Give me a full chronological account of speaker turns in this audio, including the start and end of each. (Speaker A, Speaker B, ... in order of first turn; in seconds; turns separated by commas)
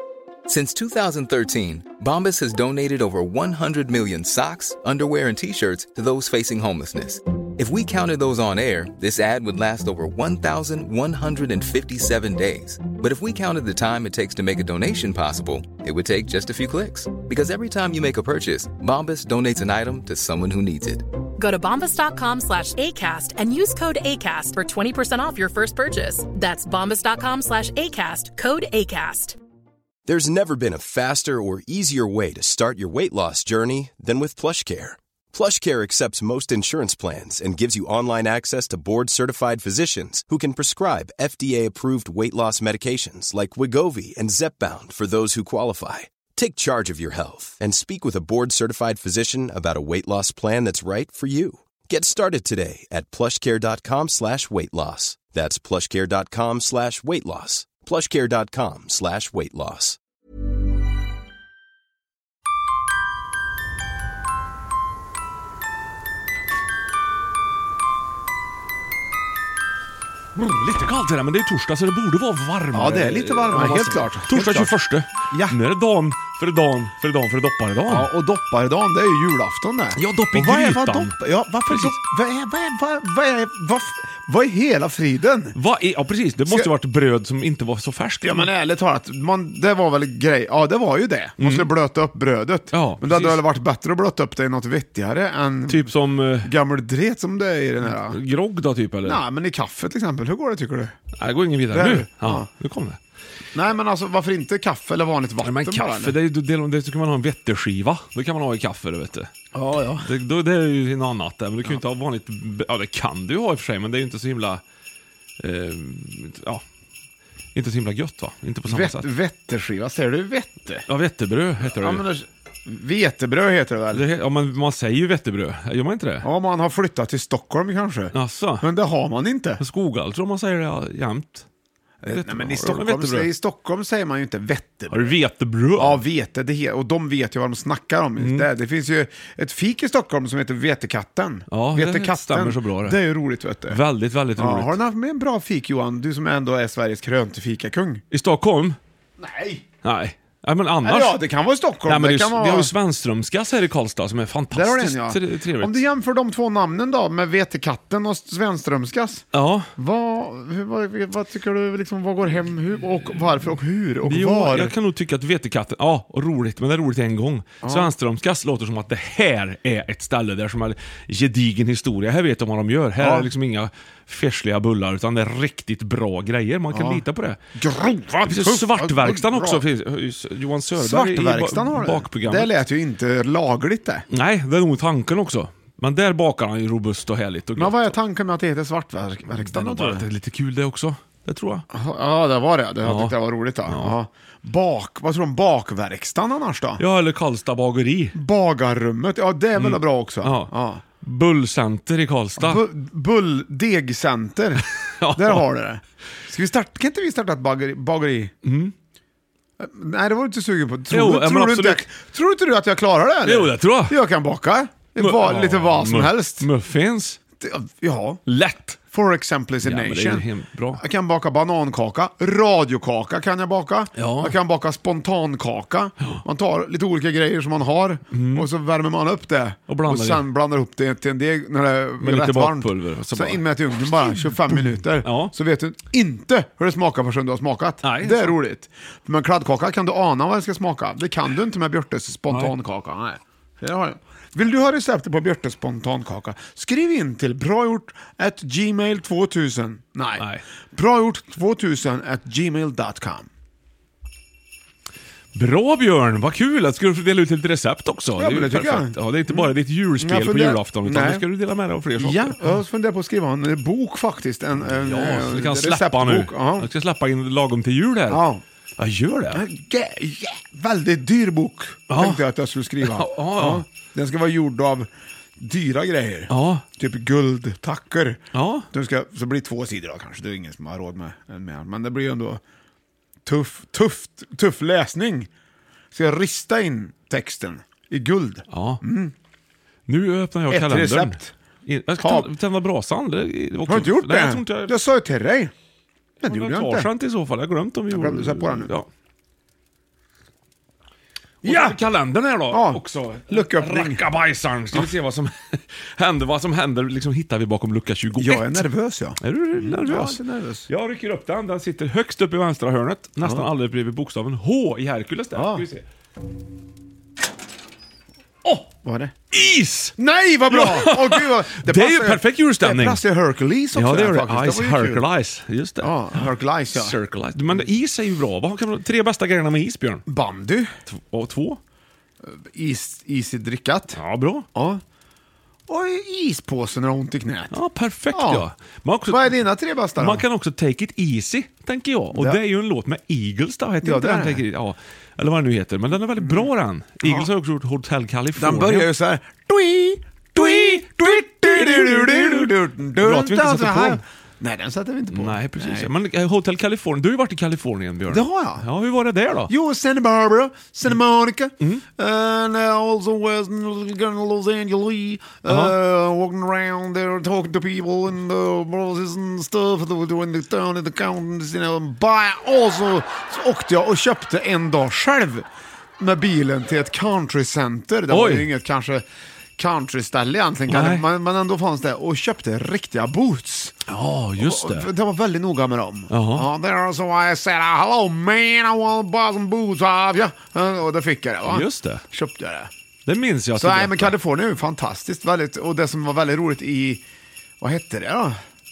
Speaker A: 0.5-21.1, Speaker B: 21.4-29.4, Speaker C: 30.1-60.0, Speaker D: 70.3-78.1, Speaker E: 72.7-74.7, Speaker E: 75.3-75.6, Speaker E: 77.9-85.6, Speaker D: 80.0-82.0, Speaker D: 85.5-88.5, Speaker E: 88.2-98.2, Speaker D: 91.4-91.7, Speaker D: 92.7-93.4, Speaker D: 95.7-96.5, Speaker D: 97.8-99.2, Speaker E: 99.0-100.9, Speaker D: 101.2-103.0, Speaker E: 101.7-102.5, Speaker E: 103.5-106.2, Speaker D: 105.4-109.3, Speaker E: 109.5-110.1, Speaker D: 110.0-114.6, Speaker D: 115.4-116.6, Speaker D: 117.5-119.1, Speaker E: 118.7-120.9, Speaker D: 120.9-122.0, Speaker E: 121.8-124.0, Speaker D: 123.9-126.3, Speaker E: 126.2-129.6, Speaker D: 128.1-128.7, Speaker D: 129.6-131.5, Speaker E: 132.0-135.2, Speaker D: 132.1-133.3, Speaker D: 134.9-136.0, Speaker E: 135.8-143.8, Speaker D: 138.2-138.5, Speaker D: 141.5-143.0, Speaker D: 143.7-144.8, Speaker E: 144.4-148.0, Speaker D: 148.1-148.8, Speaker E: 149.2-149.6, Speaker D: 149.8-151.2, Speaker E: 150.8-152.7, Speaker D: 151.9-155.8, Speaker E: 154.5-159.3, Speaker D: 159.3-159.7, Speaker E: 159.8-164.8, Speaker D: 164.1-177.4, Speaker E: 167.6-167.9, Speaker E: 173.0-173.3, Speaker E: 176.7-177.0, Speaker E: 177.6-179.7, Speaker D: 178.3-182.5, Speaker E: 180.8-184.1, Speaker D: 184.1-187.9, Speaker E: 187.6-190.1, Speaker D: 189.3-191.7, Speaker E: 191.7-196.8, Speaker D: 192.8-193.9, Speaker D: 196.8-198.2, Speaker E: 198.1-200.8, Speaker D: 199.6-202.6, Speaker E: 202.4-208.3, Speaker D: 205.0-205.4, Speaker D: 208.4-208.7, Speaker E: 209.6-216.5, Speaker D: 210.9-211.9, Speaker D: 213.2-214.0, Speaker D: 215.0-217.2, Speaker E: 217.4-218.2, Speaker D: 218.3-218.8, Speaker E: 218.9-253.3, Speaker D: 219.6-220.8, Speaker D: 224.0-224.4, Speaker D: 228.1-228.5, Speaker D: 229.7-230.3, Speaker D: 232.0-235.3, Speaker D: 237.8-238.4, Speaker D: 242.3-242.5, Speaker D: 250.2-250.4, Speaker D: 255.3-262.4, Speaker E: 258.2-261.2, Speaker E: 262.0-266.7, Speaker D: 264.7-268.2, Speaker E: 268.1-268.4, Speaker D: 268.8-269.4, Speaker E: 269.3-278.2, Speaker D: 271.9-272.3, Speaker D: 272.8-273.6, Speaker D: 276.3-276.6, Speaker D: 278.3-278.7, Speaker E: 278.7-282.4, Speaker E: 283.3-285.3, Speaker E: 285.9-289.1, Speaker D: 288.5-288.8, Speaker D: 289.9-294.7, Speaker E: 290.5-291.3, Speaker E: 292.0-292.3, Speaker E: 293.7-295.5, Speaker E: 296.2-296.9, Speaker D: 296.2-298.9, Speaker E: 297.9-298.7, Speaker D: 301.4-308.7, Speaker E: 301.4-301.8, Speaker E: 302.5-304.0, Speaker E: 308.2-310.7, Speaker D: 309.2-315.9, Speaker E: 313.2-313.5, Speaker E: 315.3-315.7, Speaker E: 318.6-319.1, Speaker D: 319.3-319.9, Speaker E: 320.0-325.1, Speaker D: 320.5-323.0, Speaker D: 323.8-330.0, Speaker E: 325.8-327.0, Speaker E: 330.1-330.7, Speaker D: 330.9-331.6, Speaker E: 332.2-334.0, Speaker D: 333.9-334.5, Speaker E: 334.5-334.8, Speaker E: 335.7-337.6, Speaker D: 337.5-339.4, Speaker E: 338.1-338.5, Speaker E: 339.1-340.3, Speaker D: 340.0-348.9, Speaker E: 342.1-342.4, Speaker E: 343.8-344.4, Speaker E: 346.2-346.5, Speaker E: 347.0-347.3, Speaker E: 348.4-355.9, Speaker D: 350.4-354.0, Speaker D: 355.1-359.5, Speaker E: 358.1-358.7, Speaker E: 359.5-375.5, Speaker D: 365.5-365.8, Speaker E: 376.0-379.1, Speaker D: 378.1-378.5, Speaker E: 379.6-383.8, Speaker D: 380.7-381.1, Speaker D: 383.9-384.9, Speaker E: 384.4-392.7, Speaker D: 386.1-386.5, Speaker D: 391.5-392.0, Speaker D: 393.1-394.1, Speaker E: 393.6-397.0, Speaker E: 397.6-398.4